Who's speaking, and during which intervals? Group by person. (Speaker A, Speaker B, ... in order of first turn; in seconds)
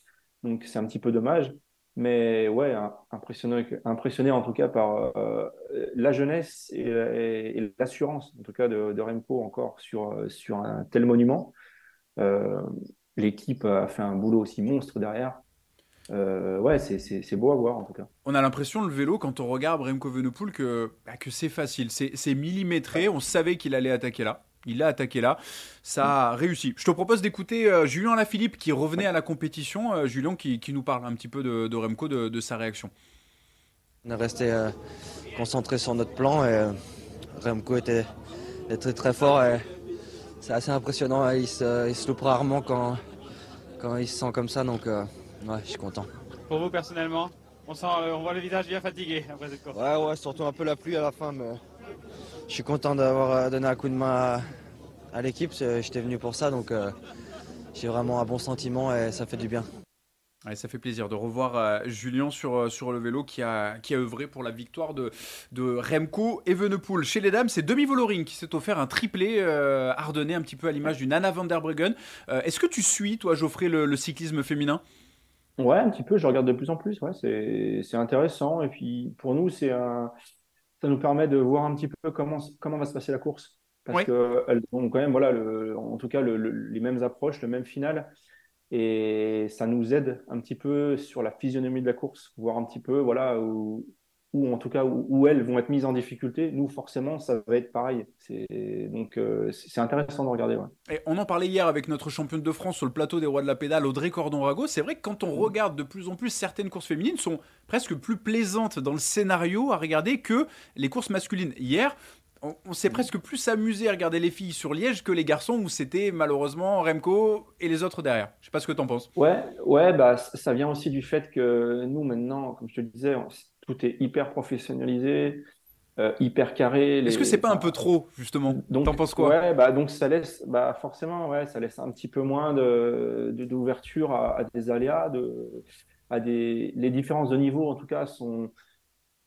Speaker A: 0.4-11.5, 12.2-15.4, 16.1-18.1, 75.6-80.1, 80.8-88.1, 88.7-100.7, 119.2-125.4, 126.0-127.7, 128.5-138.5
Speaker B: 18.2-32.9, 60.5-74.8, 100.9-119.1, 127.0-129.3
Speaker C: 34.0-34.7, 35.3-36.7, 37.4-38.0, 38.7-39.6, 40.4-43.0, 43.8-46.1, 49.7-51.6, 52.5-54.4, 55.1-56.9, 57.7-59.7
Speaker D: 46.5-49.8